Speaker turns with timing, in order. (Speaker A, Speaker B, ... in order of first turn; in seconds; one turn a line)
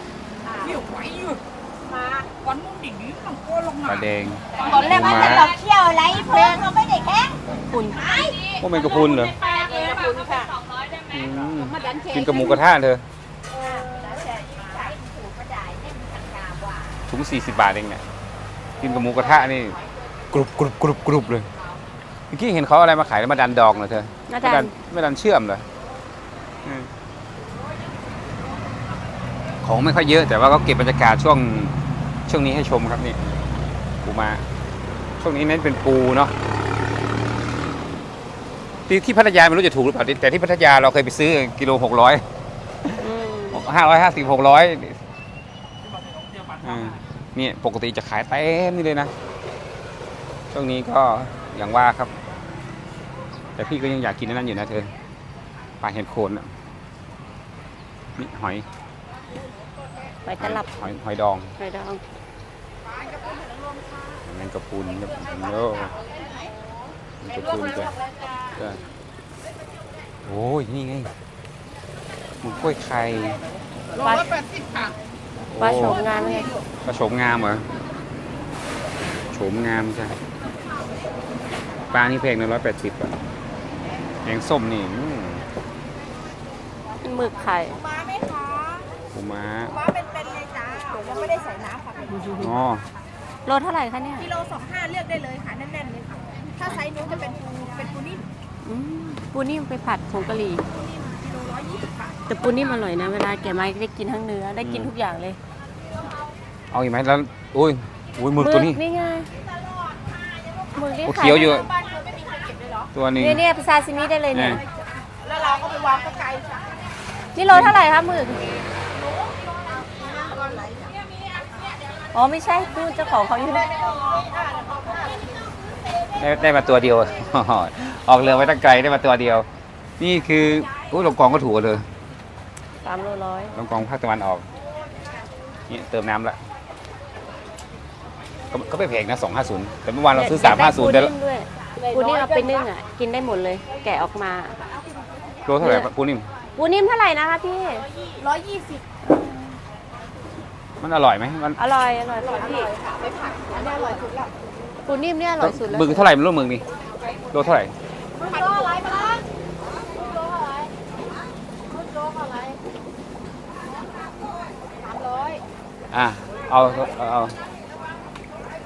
Speaker A: 0.6-6.9
Speaker B: 3.9-5.5
Speaker C: 4.5-8.4
Speaker A: 8.0-10.6
Speaker B: 8.6-9.3
Speaker B: 11.1-13.0
Speaker A: 11.5-12.6
Speaker A: 13.5-16.8
Speaker C: 13.6-14.3
Speaker B: 17.1-18.0
Speaker B: 18.8-19.8
Speaker A: 18.8-19.4
Speaker B: 20.3-21.5
Speaker B: 22.3-25.6
Speaker C: 24.3-24.7
Speaker B: 26.6-26.9
Speaker B: 29.6-33.2
Speaker B: 34.0-34.4
Speaker B: 35.2-36.3
Speaker B: 38.9-42.2
Speaker C: 43.0-43.6
Speaker B: 43.5-45.0
Speaker B: 46.6-49.1
Speaker B: 50.5-52.1
Speaker B: 53.5-54.9
Speaker B: 55.8-56.5
Speaker B: 58.2-58.6
Speaker C: 60.2-60.7
Speaker B: 60.4-61.5
Speaker C: 61.6-62.0
Speaker A: 63.3-63.8
Speaker B: 64.2-65.9
Speaker A: 65.9-66.5
Speaker B: 67.2-67.9
Speaker A: 67.3-68.5
Speaker B: 70.2-71.1
Speaker B: 72.4-73.4
Speaker A: 73.9-75.0
Speaker C: 74.0-74.3
Speaker B: 75.5-76.0
Speaker C: 75.6-76.5
Speaker A: 75.7-76.6
Speaker B: 76.8-77.7
Speaker B: 79.3-80.2
Speaker B: 81.9-83.1
Speaker B: 84.2-85.4
Speaker C: 87.0-87.8
Speaker A: 87.8-88.9
Speaker B: 89.1-89.7
Speaker A: 89.7-92.3
Speaker C: 92.1-92.5
Speaker B: 92.4-92.8
Speaker C: 93.5-94.3
Speaker A: 94.2-98.2
Speaker C: 98.6-100.6
Speaker A: 100.8-102.3
Speaker C: 102.3-105.4
Speaker B: 104.6-104.9
Speaker B: 106.7-108.8
Speaker C: 108.4-109.3
Speaker C: 110.7-111.6
Speaker B: 111.0-111.7
Speaker A: 111.3-112.9
Speaker B: 112.9-113.4
Speaker C: 113.2-114.6
Speaker B: 114.3-114.6
Speaker A: 115.2-116.8
Speaker C: 117.3-118.6
Speaker A: 119.2-121.4
Speaker C: 122.1-123.7
Speaker A: 123.8-125.5
Speaker B: 126.2-129.5
Speaker B: 130.0-131.8
Speaker C: 132.8-133.5
Speaker B: 133.5-134.4
Speaker B: 135.7-136.4
Speaker B: 138.5-141.1
Speaker C: 140.1-144.6
Speaker A: 141.8-142.6
Speaker B: 145.4-146.2
Speaker C: 145.6-145.9
Speaker C: 146.6-147.9
Speaker A: 148.2-148.8
Speaker C: 149.0-149.5
Speaker B: 150.8-151.6
Speaker C: 151.6-152.7
Speaker A: 152.2-154.3
Speaker C: 154.9-156.0
Speaker B: 155.4-156.6
Speaker B: 157.3-157.7
Speaker A: 158.2-159.2
Speaker A: 160.0-160.7
Speaker A: 161.7-162.6
Speaker A: 164.8-165.4
Speaker B: 165.9-167.4